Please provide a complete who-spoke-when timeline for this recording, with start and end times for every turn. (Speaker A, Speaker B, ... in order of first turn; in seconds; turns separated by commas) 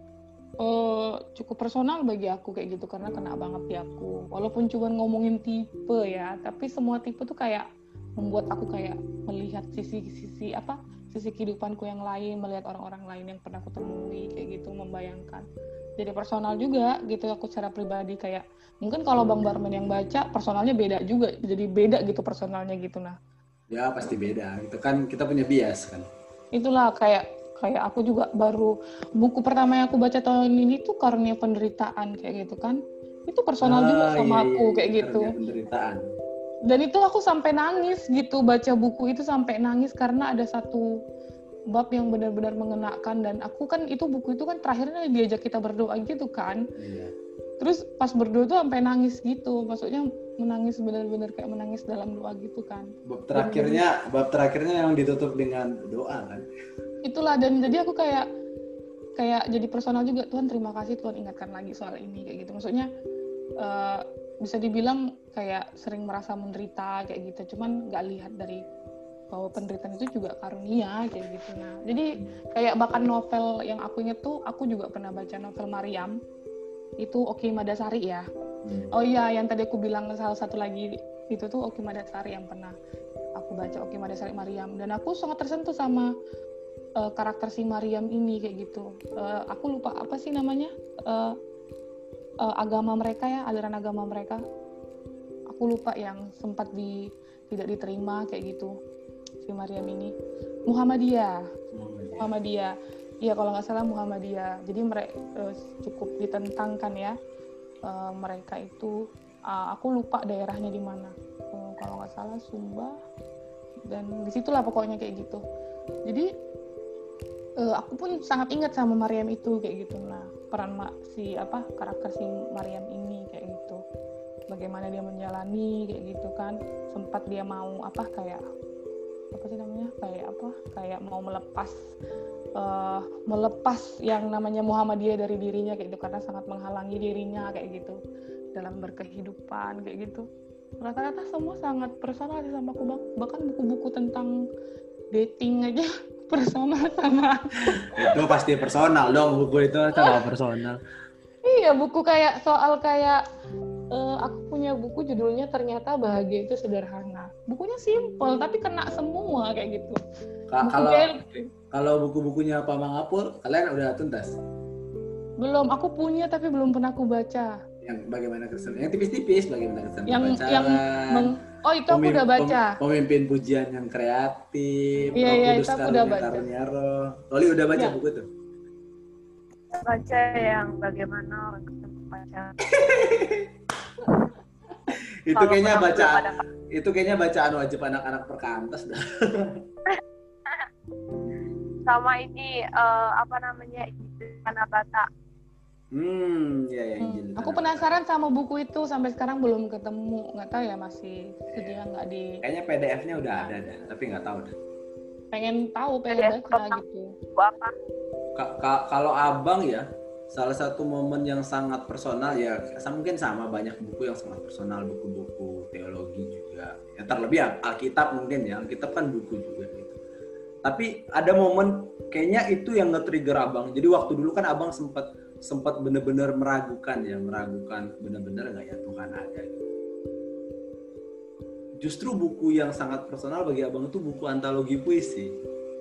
Speaker A: 0.6-7.7, Speaker A: 8.2-15.4, Speaker A: 16.0-23.2, Speaker B: 23.7-26.1, Speaker A: 26.6-35.3, Speaker B: 33.6-36.0, Speaker A: 36.7-40.9, Speaker A: 41.7-46.6, Speaker B: 46.8-47.1, Speaker A: 47.6-53.8, Speaker B: 53.1-56.5, Speaker A: 57.0-58.3, Speaker A: 59.2-62.9, Speaker A: 63.6-68.6, Speaker A: 69.3-76.1, Speaker A: 77.0-78.3, Speaker B: 78.6-78.9, Speaker A: 78.9-82.8, Speaker A: 83.4-86.1, Speaker A: 87.0-91.3, Speaker A: 92.5-94.4, Speaker A: 95.5-97.0, Speaker A: 97.5-98.7, Speaker A: 99.4-100.1, Speaker A: 100.7-101.4, Speaker B: 101.7-102.3, Speaker A: 102.2-102.7, Speaker A: 103.2-107.1, Speaker A: 107.9-109.0, Speaker A: 109.5-113.0, Speaker A: 113.9-115.4, Speaker A: 117.6-123.8, Speaker A: 124.5-128.4, Speaker A: 129.3-131.8, Speaker A: 132.6-138.0, Speaker A: 138.6-140.3, Speaker A: 140.8-144.3, Speaker A: 145.1-148.3, Speaker B: 147.9-150.8, Speaker A: 151.4-153.2, Speaker A: 153.9-160.0, Speaker B: 160.5-161.2, Speaker A: 160.6-161.4, Speaker B: 161.7-164.4, Speaker A: 165.4-167.5, Speaker B: 167.8-171.3, Speaker A: 170.1-172.7, Speaker B: 171.9-178.3, Speaker A: 175.2-176.4, Speaker C: 179.7-182.6, Speaker B: 182.7-183.5, Speaker B: 185.3-189.6, Speaker C: 185.4-186.4, Speaker C: 189.9-190.7, Speaker C: 191.9-195.1, Speaker B: 195.9-198.0, Speaker A: 197.0-202.4, Speaker B: 201.5-201.8, Speaker B: 202.4-204.6, Speaker A: 205.3-207.1, Speaker C: 206.1-206.8, Speaker C: 207.3-207.7, Speaker B: 208.4-219.9, Speaker B: 220.7-229.7, Speaker B: 231.8-235.3